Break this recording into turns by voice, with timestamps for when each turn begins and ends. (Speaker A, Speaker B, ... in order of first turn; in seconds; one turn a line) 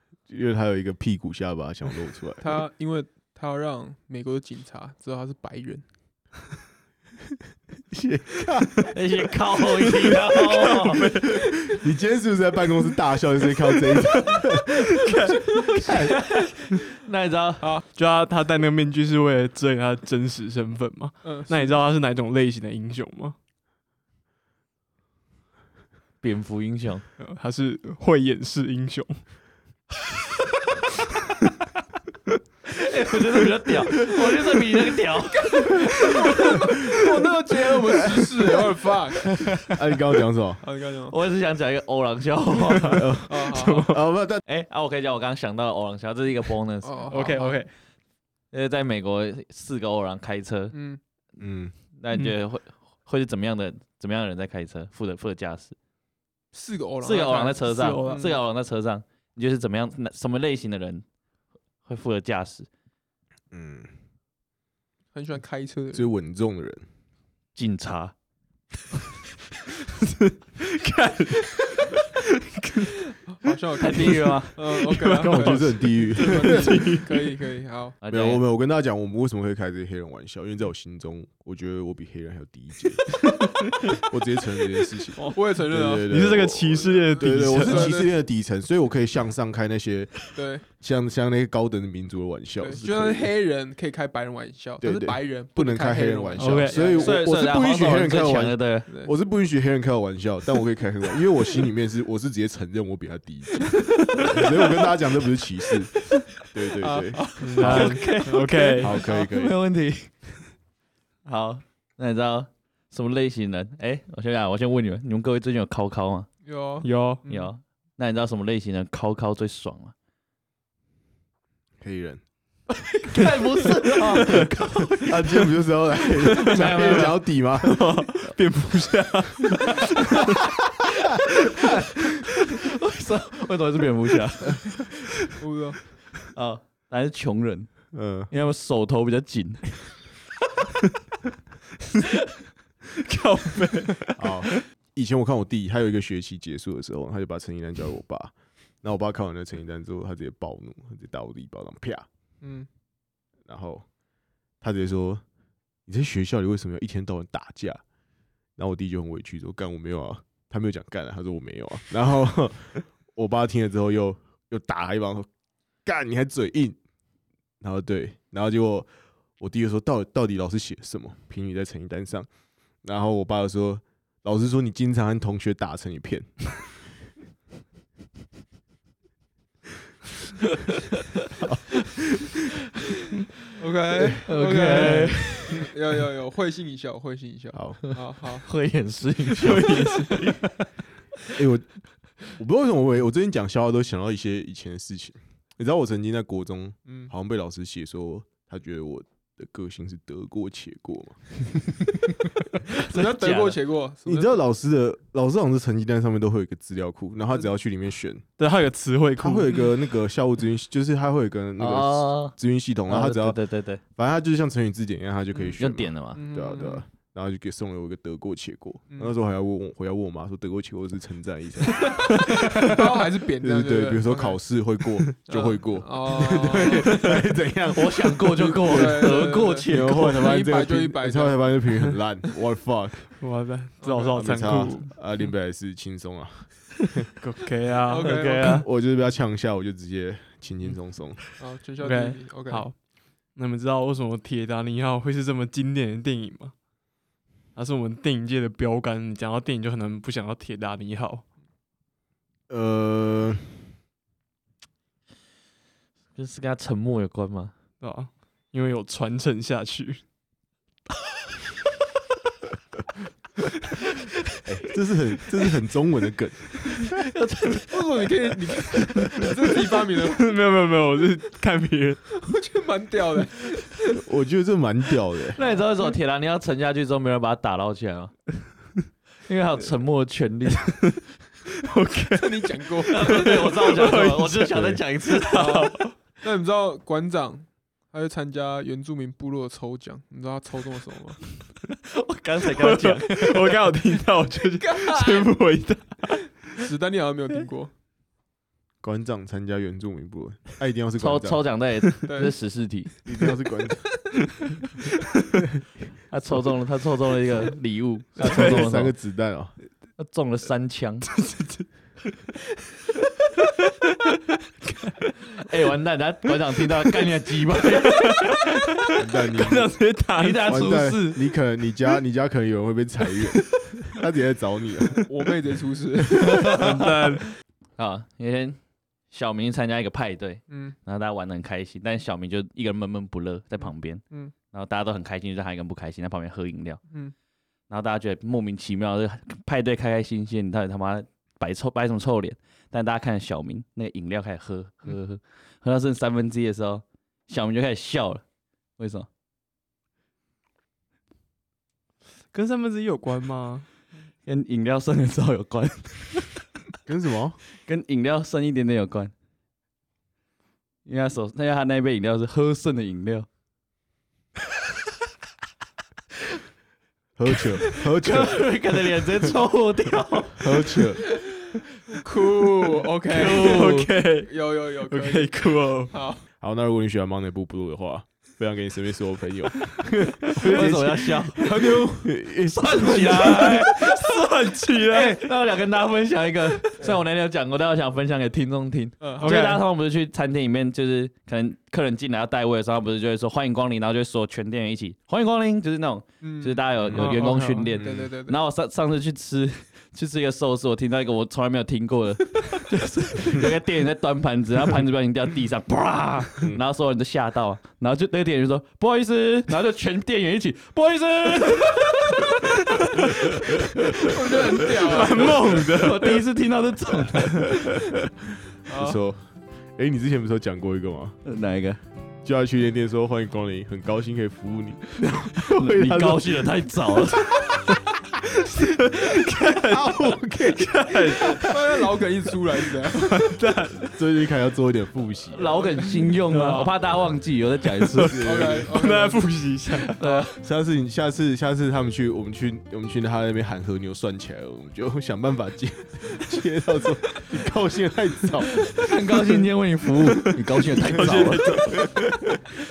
Speaker A: 0.3-2.5
Speaker B: 2.4-5.8
Speaker A: 7.9-8.9
Speaker C: 8.9-11.0
Speaker D: 10.3-11.4
Speaker A: 11.3-15.0
Speaker D: 14.3-16.0
Speaker A: 15.8-16.1
Speaker C: 15.9-17.7
Speaker B: 17.6-17.9
Speaker D: 17.9-23.4
Speaker B: 21.2-21.6
Speaker C: 26.2-27.1
Speaker D: 27.2-29.3
Speaker C: 32.7-36.2
Speaker B: 36.0-39.3
Speaker A: 39.7-40.6
Speaker B: 40.6-41.2
Speaker C: 41.1-43.0
Speaker D: 42.6-44.0
Speaker A: 43.0-44.4
Speaker B: 43.3-43.9
Speaker C: 44.5-47.0
Speaker B: 46.8-47.6
Speaker D: 47.1-47.7
Speaker C: 48.5-50.8
Speaker B: 50.7-51.0
Speaker A: 51.4-51.8
Speaker C: 52.0-55.8
Speaker B: 56.5-58.4
Speaker C: 57.0-61.0
Speaker D: 57.6-58.3
Speaker C: 61.9-62.7
Speaker A: 63.5-63.9
Speaker B: 65.1-66.1
Speaker A: 65.9-66.8
Speaker C: 67.5-68.1
Speaker D: 70.0-73.5
Speaker B: 73.4-78.0
Speaker C: 73.8-74.6
Speaker D: 74.7-77.3
Speaker A: 75.2-77.0
Speaker C: 78.0-78.4
Speaker A: 78.1-83.2
Speaker D: 83.4-83.7
Speaker A: 83.8-93.3
Speaker B: 85.3-86.2
Speaker D: 86.1-88.0
Speaker B: 87.0-88.1
Speaker B: 90.3-90.7
Speaker B: 92.6-97.2
Speaker A: 94.8-108.0
Speaker D: 96.4-96.8
Speaker C: 97.0-98.9
Speaker B: 98.9-99.1
Speaker B: 106.8-108.2
Speaker D: 107.4-109.0
Speaker C: 107.6-110.2
Speaker A: 108.8-109.6
Speaker C: 111.2-116.3
Speaker B: 116.4-117.5
Speaker D: 116.8-117.3
Speaker C: 117.3-119.9
Speaker A: 121.8-122.2
Speaker C: 122.8-125.1
Speaker D: 124.1-125.0
Speaker A: 125.0-127.9
Speaker D: 126.2-126.7
Speaker C: 126.4-127.2
Speaker D: 127.6-130.4
Speaker C: 132.6-134.9
Speaker B: 135.4-135.8
Speaker C: 136.3-140.2
Speaker A: 137.9-138.3
Speaker D: 142.9-144.7
Speaker A: 144.2-152.1
Speaker B: 152.4-152.7
Speaker A: 153.5-153.9
Speaker A: 154.6-155.2
Speaker A: 155.9-157.8
Speaker A: 158.6-165.3
Speaker A: 165.8-166.8
Speaker A: 167.6-172.3
Speaker A: 172.8-176.7
Speaker A: 181.4-182.4
Speaker B: 183.5-188.5
Speaker A: 183.9-184.2
Speaker C: 184.2-185.7
Speaker D: 184.7-185.1
Speaker A: 187.5-187.8
Speaker C: 187.8-190.6
Speaker D: 189.3-190.4
Speaker A: 191.3-191.7
Speaker A: 192.2-201.4
Speaker B: 196.9-197.1
Speaker B: 202.7-204.4
Speaker C: 202.8-203.6
Speaker A: 204.1-208.3
Speaker D: 208.4-209.7
Speaker A: 209.2-213.4
Speaker C: 211.6-213.8
Speaker A: 213.9-222.8
Speaker C: 215.6-216.2
Speaker B: 216.1-216.8
Speaker B: 221.8-224.4
Speaker A: 223.4-233.2
Speaker B: 225.3-226.8
Speaker D: 226.8-227.2
Speaker C: 227.7-230.3
Speaker B: 228.6-231.6
Speaker D: 233.2-235.0
Speaker B: 233.8-234.2
Speaker A: 234.2-237.0
Speaker D: 237.2-238.7
Speaker B: 237.9-238.6
Speaker A: 238.1-241.2
Speaker B: 241.4-242.7
Speaker D: 241.8-242.8
Speaker D: 243.3-246.5
Speaker D: 247.6-251.3
Speaker A: 252.5-253.7
Speaker C: 256.1-257.5
Speaker D: 257.8-260.0
Speaker A: 264.4-266.8
Speaker C: 266.8-268.1
Speaker B: 267.7-270.4
Speaker D: 268.7-269.2
Speaker D: 270.0-272.0
Speaker B: 272.1-274.0
Speaker A: 273.9-275.4
Speaker C: 275.4-278.1
Speaker B: 275.4-275.9
Speaker C: 279.3-280.9
Speaker D: 281.5-286.0
Speaker B: 282.2-283.4
Speaker C: 282.9-285.4
Speaker A: 284.5-284.8
Speaker B: 285.4-291.3
Speaker C: 291.8-293.6
Speaker D: 292.4-296.4
Speaker B: 294.6-295.4
Speaker B: 296.5-297.7
Speaker A: 298.8-301.5
Speaker C: 301.0-302.9
Speaker B: 302.1-302.3
Speaker A: 303.1-304.1
Speaker C: 306.1-308.9
Speaker A: 308.2-309.5
Speaker D: 308.2-308.5
Speaker C: 310.0-311.1
Speaker D: 311.0-311.7
Speaker C: 315.3-318.2
Speaker D: 317.7-320.9
Speaker A: 319.0-319.7
Speaker C: 320.2-321.2
Speaker A: 320.4-325.0
Speaker D: 323.6-323.9
Speaker B: 324.9-326.7
Speaker D: 326.2-327.4
Speaker C: 326.4-326.6
Speaker C: 327.8-328.6
Speaker C: 329.1-336.8
Speaker B: 330.5-330.8
Speaker B: 333.6-334.3
Speaker B: 336.9-337.1
Speaker C: 337.7-348.2
Speaker C: 348.8-349.1
Speaker D: 352.3-353.7
Speaker C: 354.3-356.6
Speaker A: 356.9-357.4
Speaker C: 357.6-359.1
Speaker C: 360.9-363.3
Speaker A: 367.2-368.5
Speaker C: 367.6-370.5
Speaker A: 370.4-371.0
Speaker B: 372.0-375.4
Speaker C: 373.1-373.9
Speaker D: 373.1-375.9
Speaker B: 375.9-376.2
Speaker A: 376.4-383.4
Speaker D: 380.4-381.3
Speaker C: 380.4-381.7
Speaker B: 381.4-382.1
Speaker C: 382.4-384.2
Speaker D: 382.8-385.3
Speaker C: 384.9-412.3
Speaker B: 389.0-389.3
Speaker D: 389.2-389.7
Speaker B: 396.2-398.4
Speaker A: 396.9-398.1
Speaker D: 412.4-413.2
Speaker C: 413.4-414.0
Speaker B: 414.0-415.7
Speaker D: 414.5-416.2
Speaker C: 415.6-417.5
Speaker D: 417.1-417.7
Speaker B: 418.7-419.0
Speaker A: 418.7-421.2
Speaker C: 421.2-421.8
Speaker A: 422.2-427.6
Speaker C: 425.5-427.3
Speaker D: 428.5-431.5
Speaker A: 429.7-431.5
Speaker B: 431.3-433.4
Speaker D: 432.9-434.0
Speaker A: 433.9-435.7
Speaker C: 435.3-438.2
Speaker B: 435.5-435.8
Speaker D: 436.3-436.8
Speaker D: 437.8-440.2
Speaker A: 438.1-438.7
Speaker B: 438.2-439.4
Speaker C: 440.0-440.3
Speaker A: 440.4-448.7
Speaker C: 448.5-451.6
Speaker D: 450.0-452.0
Speaker A: 451.0-452.4